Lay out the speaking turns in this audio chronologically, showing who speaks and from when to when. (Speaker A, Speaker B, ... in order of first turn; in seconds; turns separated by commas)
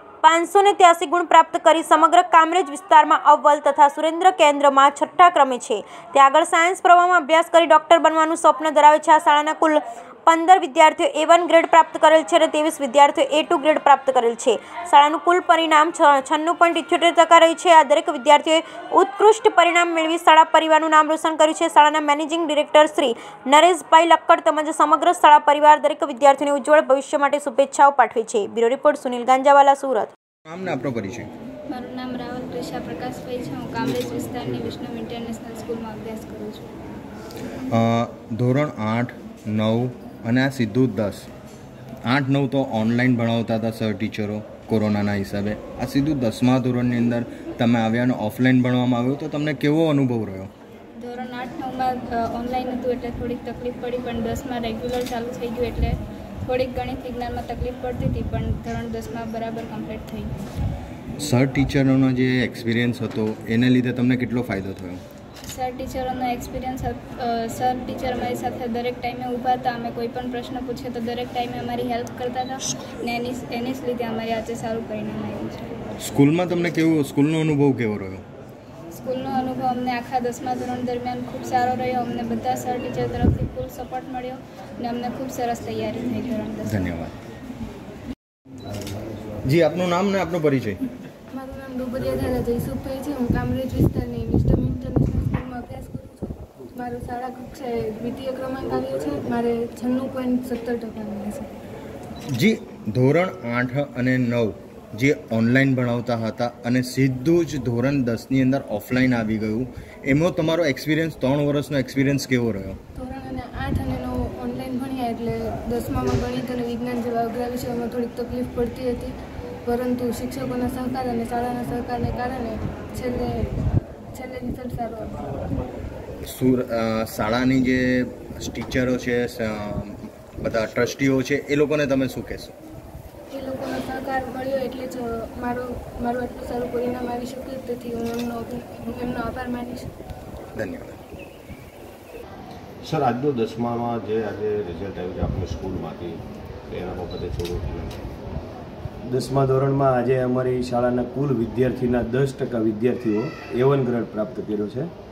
Speaker A: 0.2-30.1, Speaker B: 30.5-31.3, Speaker C: 31.7-36.6, Speaker B: 37.7-41.3, Speaker B: 42.1-50.5, Speaker C: 51.0-60.3, Speaker B: 61.2-65.0, Speaker C: 65.4-75.7, Speaker B: 76.0-78.2, Speaker C: 78.9-86.9, Speaker B: 86.7-87.2, Speaker B: 89.5-90.8, Speaker D: 91.3-101.5, Speaker B: 102.3-112.8, Speaker D: 113.0-119.1, Speaker D: 119.7-123.5, Speaker D: 124.1-125.4, Speaker B: 126.3-132.5, Speaker D: 133.3-139.9, Speaker B: 140.6-141.0, Speaker E: 142.8-148.0, Speaker F: 149.1-154.9